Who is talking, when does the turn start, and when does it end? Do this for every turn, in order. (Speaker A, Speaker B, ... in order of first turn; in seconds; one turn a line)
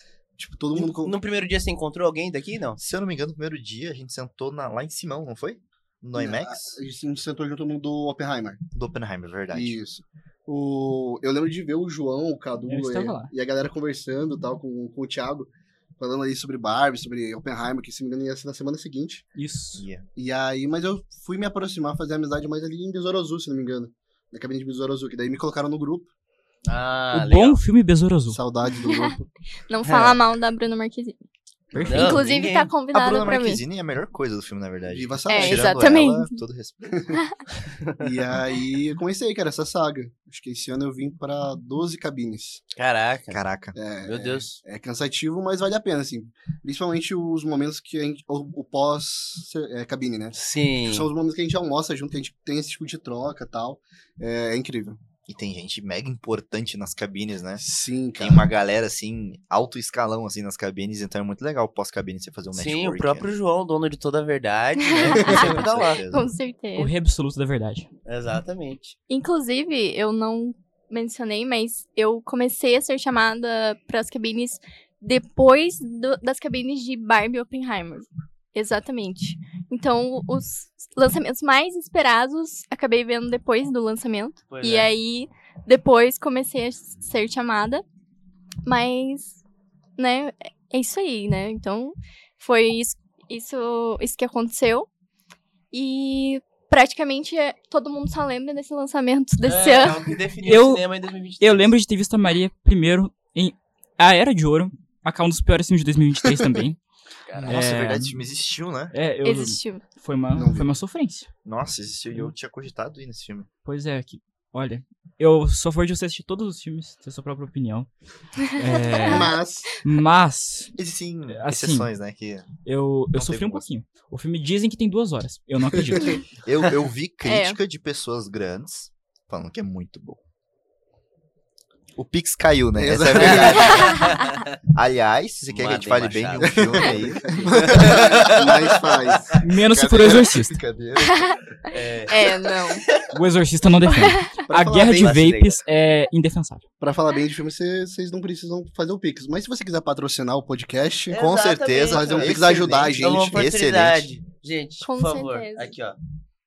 Speaker A: 0.4-1.1
Speaker B: 0.7-2.8
Speaker C: 2.8-6.8
Speaker A: 6.2-8.6
Speaker C: 8.7-9.8
Speaker A: 9.5-19.3
Speaker D: 12.7-13.3
Speaker D: 19.4-19.8
Speaker C: 19.7-20.1
Speaker A: 20.1-26.1
Speaker B: 26.7-27.6
Speaker D: 27.1-28.4
Speaker A: 28.3-29.3
Speaker E: 28.7-31.2
Speaker C: 31.7-32.2
Speaker D: 31.8-32.2
Speaker B: 31.8-32.7
Speaker E: 31.9-33.6
Speaker C: 32.9-37.1
Speaker A: 34.9-35.8
Speaker E: 35.3-36.4
Speaker A: 36.9-37.2
Speaker A: 38.0-42.6
Speaker B: 42.8-43.4
Speaker C: 43.3-43.7
Speaker A: 43.7-55.0
Speaker B: 44.0-44.6
Speaker B: 50.3-51.1
Speaker C: 55.3-57.6
Speaker A: 57.6-58.5
Speaker C: 58.2-63.3
Speaker B: 62.5-66.0
Speaker E: 64.8-66.9
Speaker C: 65.1-66.3
Speaker A: 65.2-65.5
Speaker D: 66.8-67.9
Speaker B: 68.0-69.0
Speaker E: 69.1-87.8
Speaker B: 84.5-84.9
Speaker E: 88.6-89.4
Speaker E: 90.0-94.9
Speaker E: 95.7-100.1
Speaker B: 99.4-101.7
Speaker D: 100.4-100.8
Speaker D: 101.4-106.8
Speaker B: 107.3-107.6
Speaker C: 107.3-108.9
Speaker D: 107.5-108.2
Speaker D: 108.9-111.3
Speaker E: 109.2-109.8
Speaker A: 110.3-110.7
Speaker C: 111.5-113.5
Speaker D: 113.6-117.9
Speaker D: 118.5-120.7
Speaker E: 118.7-119.3
Speaker A: 119.0-119.8
Speaker C: 120.8-122.5
Speaker D: 121.3-121.9
Speaker D: 122.6-126.2
Speaker C: 123.1-123.7
Speaker A: 125.7-126.1
Speaker C: 126.4-130.2
Speaker E: 127.2-127.6
Speaker C: 131.9-134.2
Speaker A: 132.7-133.8
Speaker B: 133.2-134.4
Speaker E: 133.7-134.2
Speaker C: 134.7-138.3
Speaker B: 135.5-139.4
Speaker A: 136.4-139.4
Speaker D: 139.4-140.6
Speaker C: 139.7-141.3
Speaker E: 141.0-141.4
Speaker B: 141.7-143.1
Speaker E: 142.1-142.8
Speaker D: 143.1-146.6
Speaker E: 143.9-144.3
Speaker A: 144.5-145.2
Speaker B: 144.6-145.6
Speaker A: 146.8-151.2
Speaker B: 151.1-156.0
Speaker C: 151.1-154.1
Speaker A: 151.8-153.4
Speaker E: 154.8-155.7